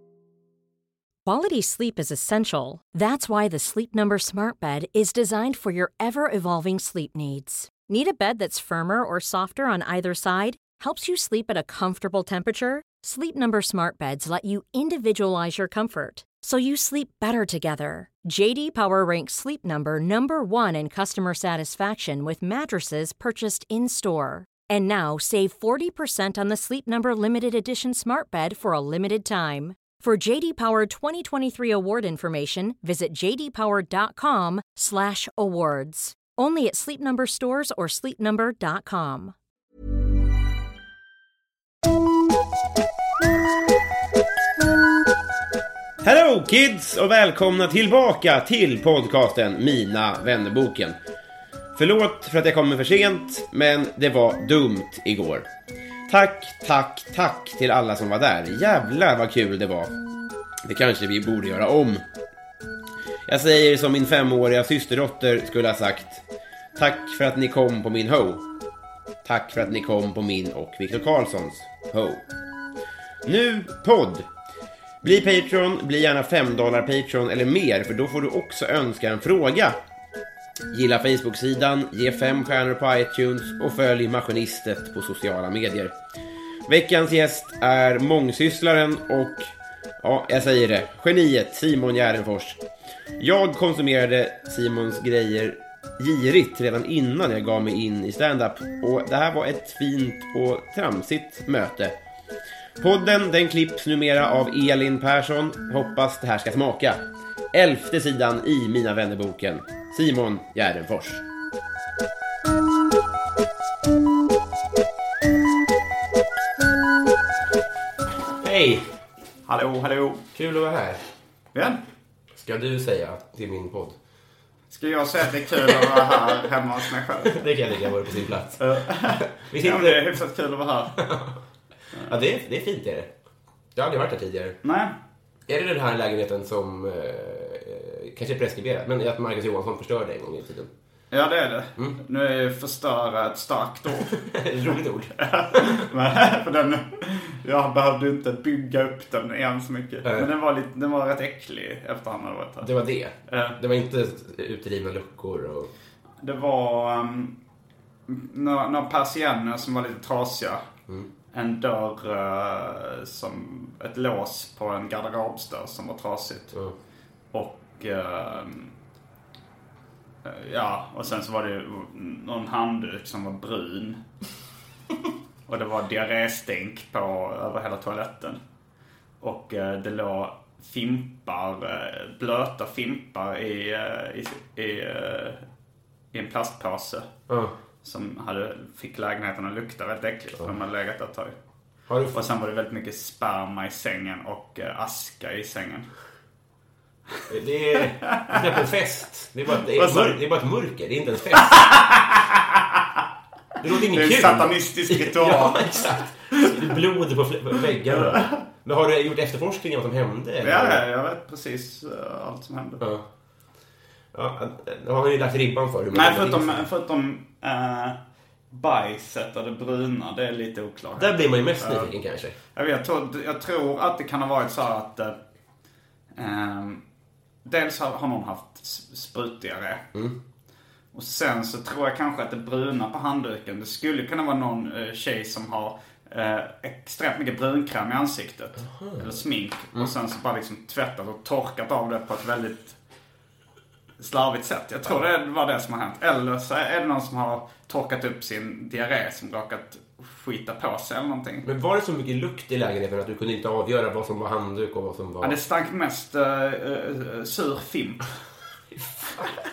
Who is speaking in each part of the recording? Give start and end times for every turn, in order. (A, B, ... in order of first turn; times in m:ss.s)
0:01.2-0:39.4 A
0:46.0-0:51.0 B
0:51.8-0:55.5 B
0:56.1-1:00.0 B
1:00.6-1:02.0 B
1:03.3-1:08.4 B
1:09.2-1:12.2 B
1:13.2-1:14.3 B
1:15.0-1:19.8 B
1:20.7-1:26.0 B
1:26.7-1:32.6 B
1:33.2-1:42.0 B
1:42.8-1:51.2 B
1:58.4-1:58.9 B
1:59.5-2:00.2 C
2:00.3-2:01.0 B
2:01.5-2:01.8 C
2:02.3-2:04.0 B
2:04.7-2:07.5 C
2:07.3-2:10.2 B
2:08.6-2:11.0 C
2:11.0-2:11.4 B
2:12.0-2:13.1 B
2:13.8-2:14.6 B
2:14.6-2:14.9 C
2:15.5-2:20.7 B
2:21.1-2:24.2 C
2:24.1-2:25.9 B
2:25.2-2:32.7 C
2:30.0-2:30.3 B
2:32.6-2:35.7 B
2:33.3-2:33.6 C
2:36.2-2:37.3 C
2:38.1-2:40.6 C
2:41.3-2:46.6 C
2:47.3-2:48.7 C
2:50.2-2:54.0 C
2:55.5-2:58.4 C
2:59.2-3:05.4 C
3:06.1-3:07.1 C
3:07.3-3:07.5 B
3:07.8-3:11.4 C
3:11.9-3:12.2 B
3:12.1-3:15.9 C
3:17.3-3:21.6 B
3:18.1-3:18.4 C
3:19.7-3:20.2 C
3:21.3-3:22.8 C
3:23.6-3:30.8 B
3:23.9-3:26.6 C
3:27.9-3:28.4 C
3:30.4-3:32.8 C
3:32.8-3:33.1 B
3:34.1-3:36.7 B
3:35.9-3:38.0 C
3:38.5-3:41.9 C
3:41.0-3:42.4 B
3:42.5-3:45.2 C
3:46.2-3:46.8 C
3:47.4-3:49.8 C
3:50.9-4:02.8 C
3:58.6-3:59.2 B
4:04.0-4:11.4 C
4:11.4-4:15.4 B
4:15.2-4:18.1 C
4:19.0-4:19.3 C